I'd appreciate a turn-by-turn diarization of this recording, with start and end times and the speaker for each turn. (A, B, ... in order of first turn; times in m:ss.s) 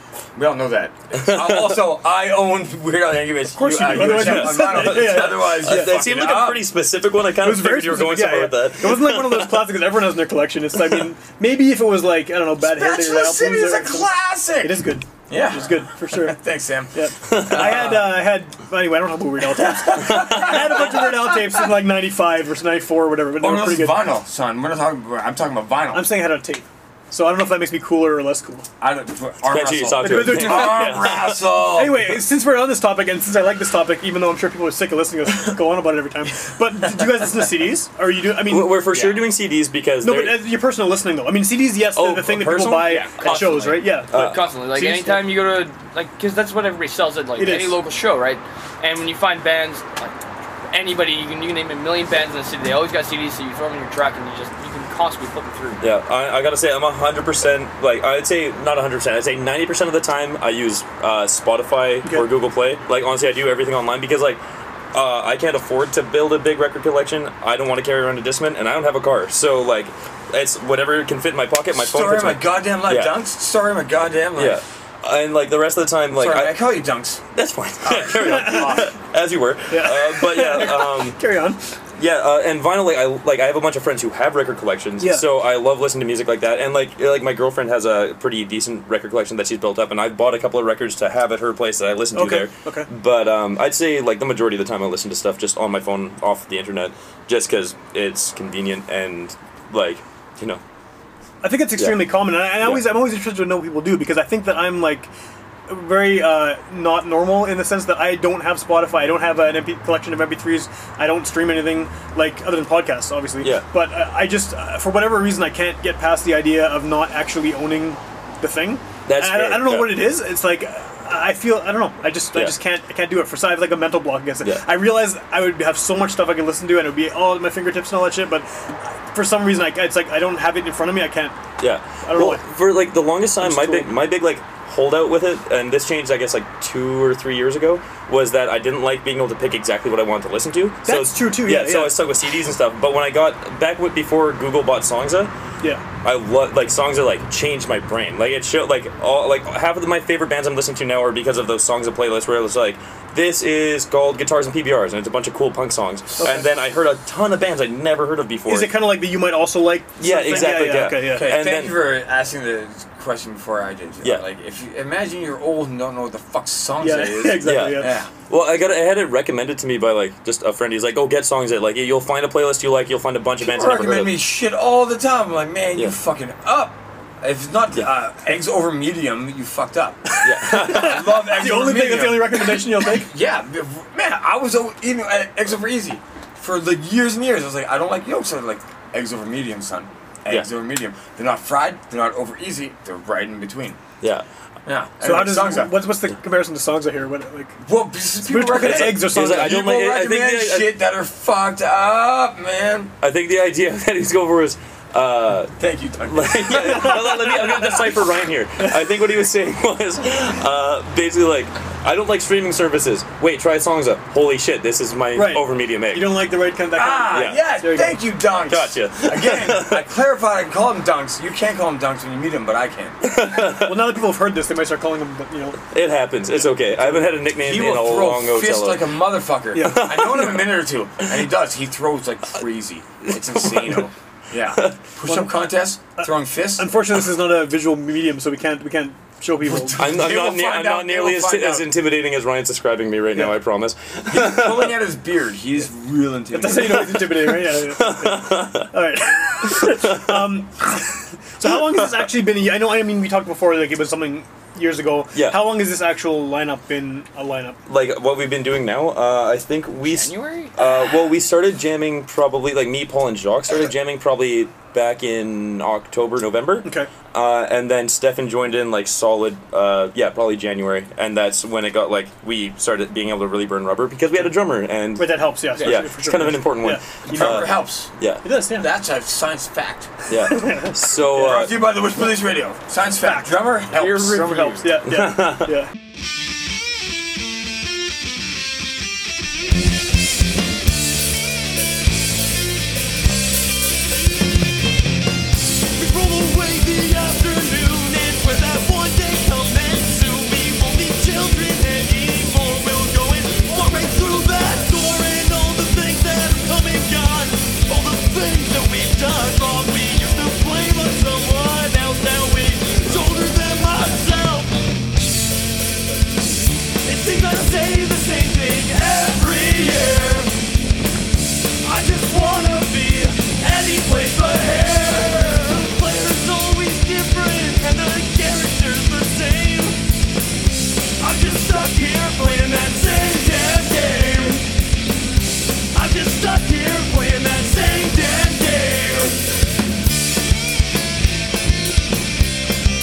0:00.3-0:06.7 A
0:01.2-0:01.9 B
0:03.5-0:06.0 C
0:03.9-0:09.6 B
0:07.4-0:14.1 C
0:12.6-0:17.9 A
0:14.6-0:16.4 C
0:16.9-0:24.0 C
0:17.3-0:18.2 B
0:19.8-0:21.6 A
0:23.4-0:26.2 A
0:25.9-0:28.6 C
0:28.8-0:32.1 A
0:29.4-0:31.6 B
0:30.0-0:38.9 C
0:38.4-0:40.4 B
0:40.0-0:44.2 C
0:41.9-0:44.5 B
0:42.9-0:55.9 D
0:44.7-0:45.3 C
0:47.4-0:47.8 C
0:55.8-1:04.4 B
1:02.0-1:02.3 C
1:04.9-1:13.3 B
1:11.7-1:14.6 A
1:14.3-1:16.7 B
1:16.1-1:17.2 A
1:17.3-1:21.2 B
1:17.8-1:18.9 A
1:18.2-1:18.9 C
1:19.7-1:21.6 C
1:22.0-1:40.6 B
1:25.0-1:25.3 C
1:32.1-1:32.9 C
1:41.4-1:45.1 C
1:41.8-1:42.9 B
1:45.7-2:11.4 C
1:53.4-1:53.6 B
1:59.0-2:00.1 B
2:02.3-2:02.6 B
2:04.4-2:04.7 B
2:11.6-2:25.3 B
2:12.0-2:12.4 C
2:13.4-2:14.0 C
2:20.8-2:22.0 C
2:26.0-2:38.8 B
2:36.2-2:36.4 C
2:38.5-2:41.4 C
2:40.0-2:41.8 B
2:40.3-2:48.1 A
2:46.8-2:48.0 C
2:47.4-2:54.2 B
2:53.4-3:13.8 A
3:00.1-3:03.1 C
3:00.2-3:01.2 B
3:14.0-3:14.2 B
3:14.6-3:15.8 A
3:15.0-3:17.6 C
3:17.6-3:22.9 A
3:18.2-3:19.6 C
3:18.6-3:20.8 B
3:23.0-3:36.2 B
3:25.6-3:27.4 A
3:26.5-3:27.5 C
3:35.1-3:38.4 C
3:36.7-3:43.0 A
3:37.1-3:37.4 B
3:38.5-3:39.8 B
3:43.0-3:43.9 B
3:43.5-3:45.6 C
3:45.7-3:48.9 B
3:46.4-3:47.1 C
3:47.3-3:56.7 A
3:49.5-3:49.9 C
3:49.6-3:50.6 B
3:53.1-3:53.9 B
3:55.0-3:55.3 C
3:56.0-4:00.0 C
3:59.4-4:01.7 A
3:59.8-4:04.8 B
4:04.1-4:07.0 A
4:06.3-4:17.6 C
4:06.9-4:08.7 B
4:09.4-4:10.2 B
4:11.4-4:11.8 B
4:15.1-4:15.5 B
4:17.6-4:38.2 B
4:19.8-4:20.7 D
4:26.6-4:26.9 C
4:35.0-4:36.9 C
4:35.5-4:35.8 D
4:37.1-4:37.9 A
4:38.2-4:38.7 C
4:38.5-4:39.9 A
4:40.1-4:41.7 B
4:40.2-4:40.7 C
4:41.1-4:44.6 A
4:43.7-4:44.8 D
4:44.6-4:45.7 C
4:44.9-4:45.5 B
4:55.8-5:14.6 E
5:16.8-5:20.3 E
5:21.6-5:29.8 E
5:31.0-5:34.4 E
5:35.7-5:39.2 E